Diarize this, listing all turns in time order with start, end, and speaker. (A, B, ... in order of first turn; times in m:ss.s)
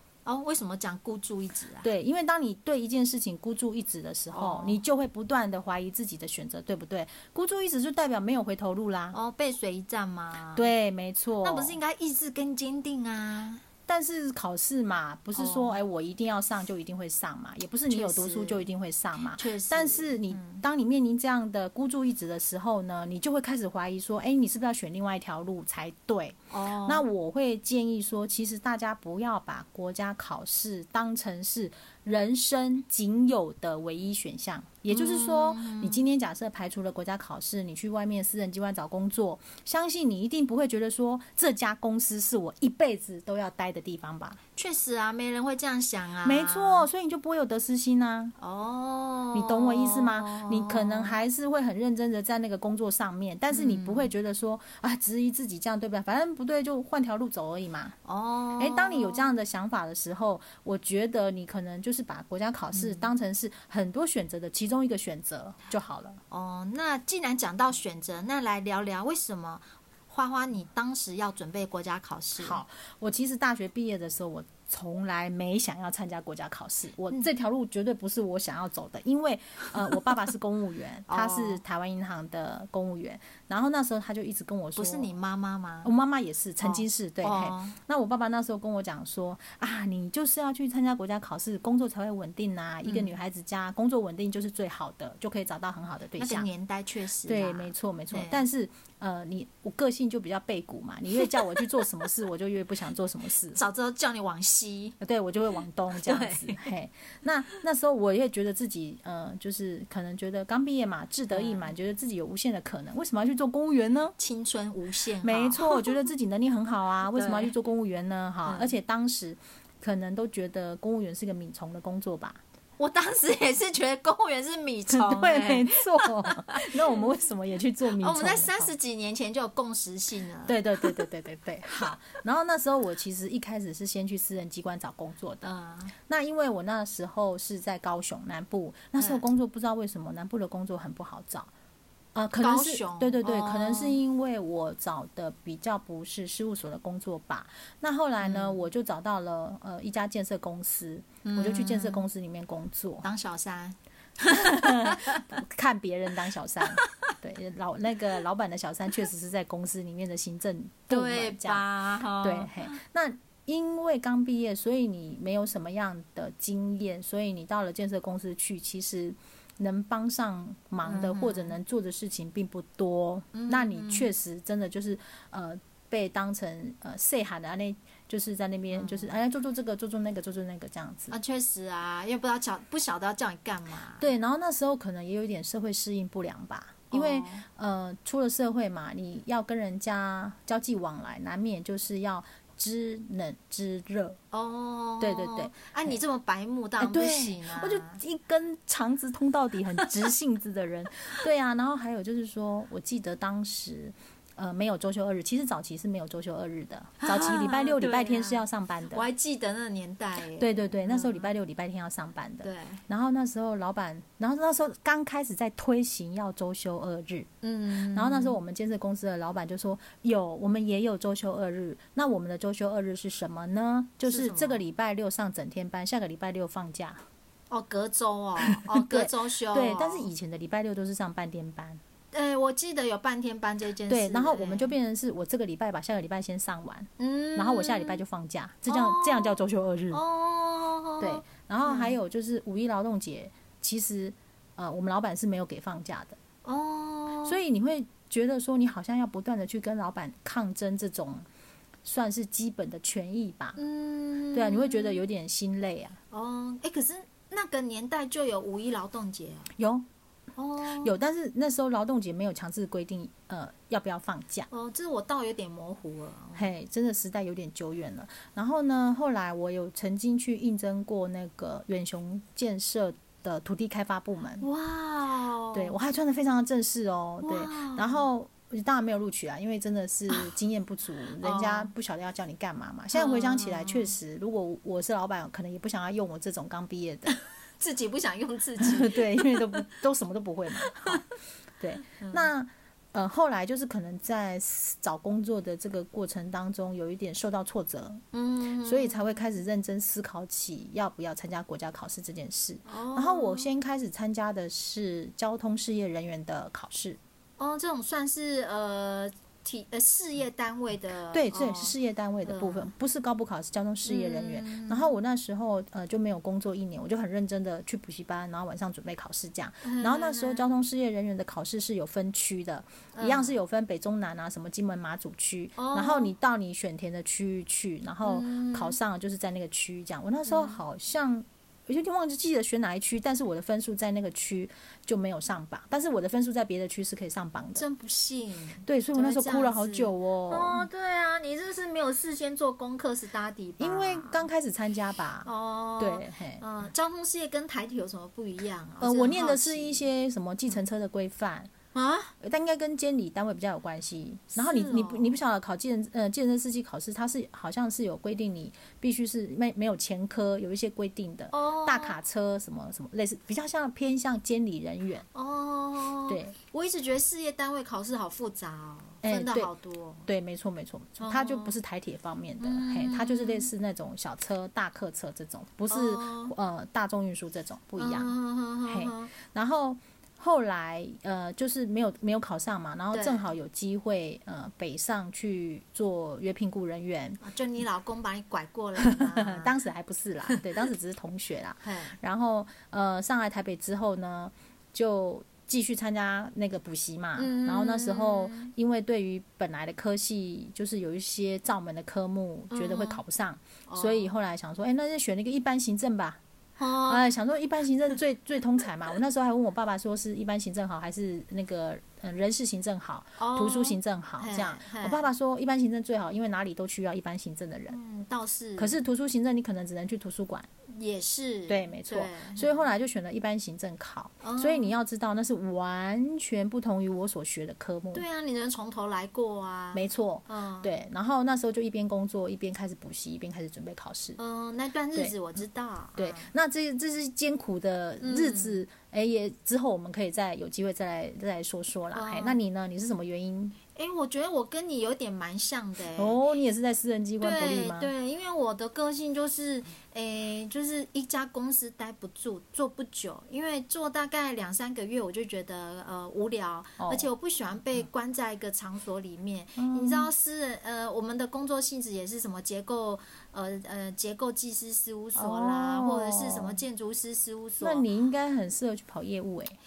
0:00.2-0:01.9 A
0:01.8-0:09.2 B
0:04.3-0:04.8 A
0:09.1-0:10.7 A
0:10.5-0:11.8 B
0:11.4-0:13.6 A
0:13.9-0:44.4 B
0:15.3-0:15.7 A
0:17.9-0:18.6 A
0:19.4-0:20.6 A
0:26.5-0:27.0 A
0:34.9-0:36.0 A
0:44.6-0:46.9 A
0:46.2-0:48.3 B
0:48.4-0:51.2 A
0:49.3-0:57.9 B
0:53.5-0:54.1 A
0:58.0-0:59.3 A
0:58.6-1:06.2 B
1:02.7-1:03.1 A
1:06.3-1:12.6 A
1:12.4-1:25.1 B
1:21.1-1:21.6 A
1:24.8-1:25.9 A
1:25.8-1:36.5 B
1:26.6-1:27.8 A
1:32.8-1:33.2 A
1:36.2-1:38.4 A
1:37.3-1:43.6 B
1:43.5-1:45.0 A
1:45.0-1:54.1 B
1:46.0-1:46.7 A
1:51.3-1:51.7 A
1:54.2-1:56.0 A
1:55.2-2:02.4 B
1:57.1-1:57.5 A
1:58.4-1:58.8 A
2:02.8-2:07.0 A
2:04.9-2:08.7 B
2:07.9-2:11.0 A
2:10.5-2:15.4 B
2:15.4-2:15.9 A
2:16.1-2:21.5 B
2:19.0-2:19.2 A
2:22.1-2:33.0 B
2:22.4-2:24.0 A
2:28.2-2:28.6 A
2:31.2-2:32.0 A
2:33.0-2:35.2 A
2:34.3-2:41.6 B
2:40.9-2:42.8 A
2:42.2-3:01.1 B
2:50.8-2:51.5 A
2:53.3-2:54.1 A
2:58.7-2:59.2 A
3:01.1-3:04.1 A
3:04.0-3:14.2 B
3:06.9-3:07.4 A
3:14.3-3:18.0 A
3:15.0-3:16.0 B
3:16.8-3:29.0 B
3:27.0-3:28.4 A
3:28.9-3:31.3 A
3:30.3-3:37.3 B
3:32.4-3:32.8 A
3:37.4-3:38.4 A
3:37.9-3:47.0 B
3:44.0-3:44.6 A
3:47.5-3:50.1 A
3:48.5-3:51.8 B
3:52.1-3:54.7 A
3:53.9-4:00.0 B
3:57.0-3:58.0 A
3:58.7-3:59.4 A
3:59.9-4:02.0 A
4:01.0-4:06.2 B
4:06.4-4:07.4 A
4:07.2-4:11.2 B
4:11.8-4:13.6 B
4:13.6-4:15.0 A
4:14.3-4:16.0 B
4:16.1-4:19.5 A
4:19.6-4:19.8 B
4:20.4-4:20.9 A
4:20.8-4:24.5 B
4:24.5-4:26.5 A
4:26.4-4:34.4 B
4:34.4-4:35.8 A
4:35.5-4:47.1 B
4:37.2-4:38.0 A
4:41.2-4:41.7 A
4:42.9-4:43.9 A
4:47.1-4:49.7 A
4:48.6-4:51.0 B
4:50.6-4:51.0 A
4:51.6-4:58.0 B
4:52.0-4:52.3 A
4:58.1-4:59.2 A
4:58.6-5:07.0 B
5:02.6-5:03.5 A
5:07.4-5:12.7 A
5:11.1-5:37.6 B
5:13.8-5:14.9 A
5:19.6-5:20.5 A
5:22.9-5:23.4 A
5:25.6-5:26.1 A
5:28.0-5:28.8 A
5:30.2-5:30.6 A
5:37.6-5:44.3 A
5:38.6-5:40.7 B
5:43.6-5:46.4 B
5:45.2-5:49.8 A
5:48.8-5:51.5 B
5:51.7-5:52.1 A
5:52.2-6:05.0 B
5:54.3-5:55.2 A
6:01.3-6:02.0 A
6:05.1-6:10.1 A
6:06.1-6:06.3 B
6:09.0-6:09.5 B
6:10.0-6:18.1 B
6:11.0-6:11.6 A
6:12.4-6:13.5 A
6:15.7-6:16.3 A
6:17.8-6:19.1 A
6:18.7-6:27.2 B
6:22.9-6:23.2 A
6:27.2-6:29.5 A
6:28.8-6:46.2 B
6:31.6-6:32.0 A
6:37.2-6:38.5 A
6:42.5-6:43.0 A
6:43.7-6:44.1 A
6:46.6-6:47.1 A
6:46.8-6:57.8 B
6:53.2-6:55.0 A
6:57.7-6:58.8 A
6:58.6-7:00.5 B
7:00.7-7:02.5 A
7:01.5-7:08.0 B
7:04.2-7:04.7 A
7:07.9-7:10.7 A
7:09.7-7:14.2 B
7:14.2-7:16.3 A
7:16.0-7:23.6 B
7:18.0-7:18.6 A
7:21.9-7:22.4 A
7:23.7-7:26.2 A
7:25.9-7:27.9 B
7:27.2-7:47.8 A
7:36.8-7:37.1 B
7:39.6-7:40.1 B
7:45.2-7:46.6 B
7:47.6-7:49.6 B